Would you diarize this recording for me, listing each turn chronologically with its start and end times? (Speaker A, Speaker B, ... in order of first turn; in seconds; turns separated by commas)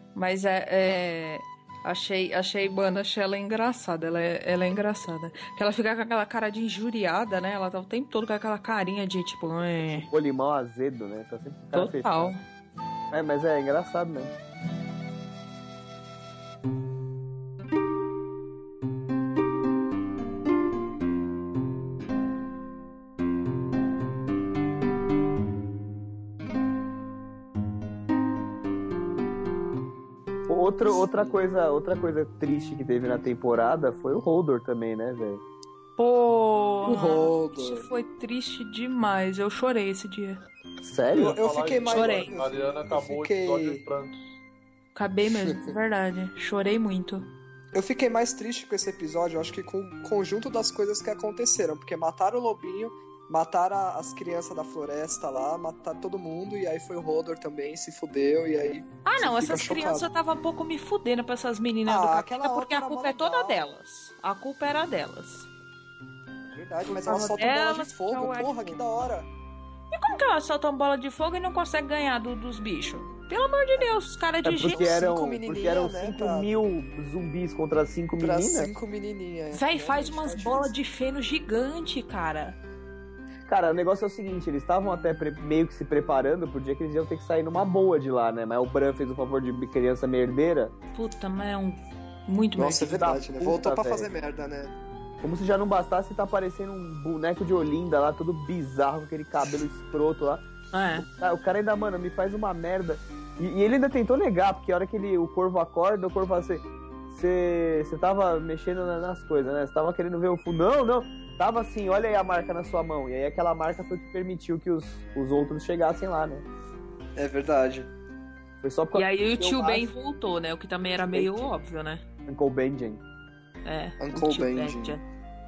Speaker A: 0.1-10.1, Speaker B: 10.1-12.3, Speaker A: 11.7-12.4, Speaker B: 13.1-14.3, Speaker B: 30.5-35.4, Speaker C: 31.0-31.4, Speaker A: 36.0-40.4, Speaker C: 36.9-37.9, Speaker B: 40.8-41.4, Speaker D: 41.1-44.2, Speaker C: 41.1-43.9, Speaker A: 41.9-42.4, Speaker A: 45.0-47.3, Speaker C: 47.7-60.1, Speaker A: 59.0-65.5, Speaker C: 61.9-63.8, Speaker C: 66.5-69.3, Speaker A: 66.9-68.8, Speaker A: 69.9-74.9, Speaker B: 74.4-78.7, Speaker C: 74.6-76.5, Speaker C: 78.2-80.7, Speaker A: 79.5-82.6, Speaker B: 83.5-90.7, Speaker A: 91.0-93.0, Speaker C: 92.6-94.7, Speaker B: 92.8-94.1, Speaker B: 95.2-100.4, Speaker A: 100.7-101.1, Speaker B: 101.0-116.5, Speaker C: 117.2-117.9, Speaker B: 118.6-119.9, Speaker A: 118.9-122.0, Speaker B: 121.1-121.5, Speaker B: 122.3-123.0, Speaker A: 123.7-125.0, Speaker C: 124.0-125.0